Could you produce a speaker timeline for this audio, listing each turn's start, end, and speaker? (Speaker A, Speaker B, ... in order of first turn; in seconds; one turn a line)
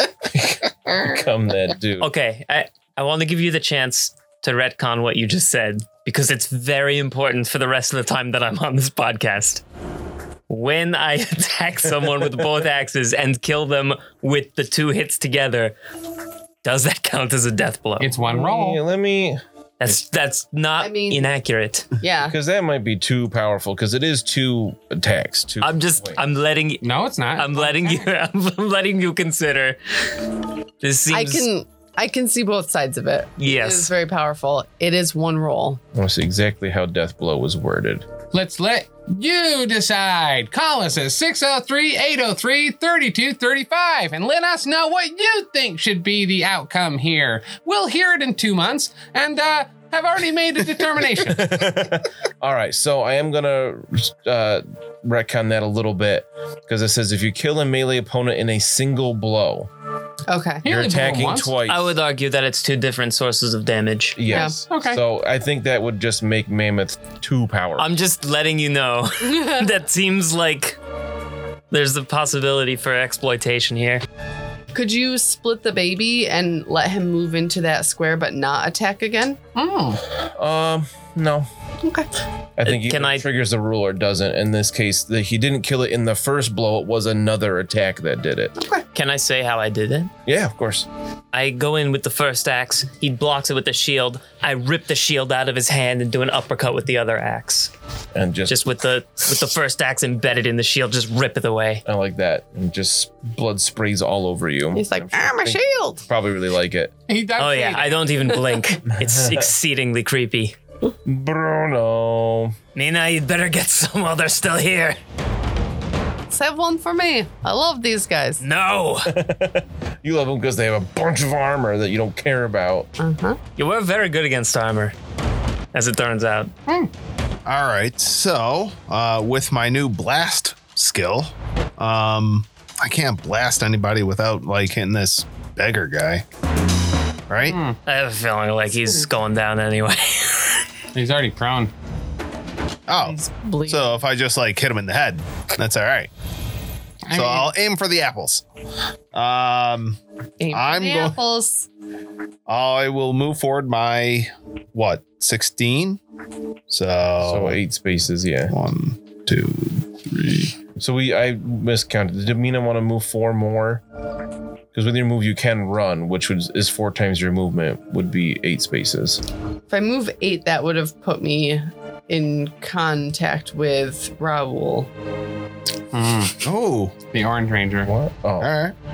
Speaker A: 0.3-2.1
Speaker B: 2.0-9.6
Speaker B: 10.5-15.7
Speaker B: 16.6-18.1
Speaker C: 18.0-18.8
Speaker A: 18.3-19.4
Speaker B: 19.8-21.9
Speaker D: 20.8-21.3
Speaker D: 22.0-22.3
Speaker A: 22.2-26.2
Speaker B: 25.6-29.8
Speaker C: 26.8-28.1
Speaker B: 30.8-31.5
Speaker D: 31.1-35.8
Speaker B: 33.4-33.9
Speaker A: 35.9-38.1
Speaker C: 38.3-51.5
Speaker A: 51.3-59.7
Speaker D: 60.3-60.7
Speaker C: 60.6-61.5
Speaker A: 60.6-62.0
Speaker B: 61.6-64.4
Speaker A: 64.2-67.9
Speaker D: 64.3-64.6
Speaker C: 64.5-65.0
Speaker B: 67.8-70.8
Speaker D: 69.2-69.7
Speaker B: 71.7-74.0
Speaker D: 74.7-79.4
Speaker C: 79.5-80.0
Speaker A: 80.2-81.5
Speaker A: 82.6-88.5
Speaker B: 82.6-83.2
Speaker D: 88.5-88.8
Speaker B: 88.9-90.1
Speaker A: 90.2-90.9
Speaker B: 91.3-97.7
Speaker A: 98.1-98.6
Speaker B: 98.5-101.8
Speaker A: 101.8-106.9
Speaker D: 104.7-106.0
Speaker C: 107.1-108.1
Speaker B: 107.4-110.5
Speaker A: 108.9-109.5
Speaker A: 111.0-112.5
Speaker B: 112.7-115.0
Speaker D: 116.3-118.4
Speaker B: 118.4-119.1
Speaker A: 119.0-122.9
Speaker D: 123.0-123.4
Speaker B: 123.6-124.9
Speaker B: 125.7-126.5
Speaker E: 127.5-136.2
Speaker E: 137.3-137.6
Speaker C: 137.4-137.8
Speaker B: 137.8-140.6
Speaker C: 140.9-141.7
Speaker E: 142.9-146.1
Speaker D: 143.0-144.0
Speaker C: 147.1-147.5
Speaker E: 147.1-148.4
Speaker E: 149.1-150.0
Speaker D: 150.4-151.7
Speaker E: 150.5-151.2
Speaker E: 152.5-156.0
Speaker E: 156.7-157.6
Speaker A: 157.2-158.5
Speaker E: 158.5-160.5
Speaker A: 160.8-163.8
Speaker A: 164.7-169.2
Speaker D: 169.7-174.9
Speaker C: 175.9-176.3
Speaker E: 176.4-176.9
Speaker C: 177.1-177.9
Speaker A: 177.8-178.5
Speaker E: 178.4-178.7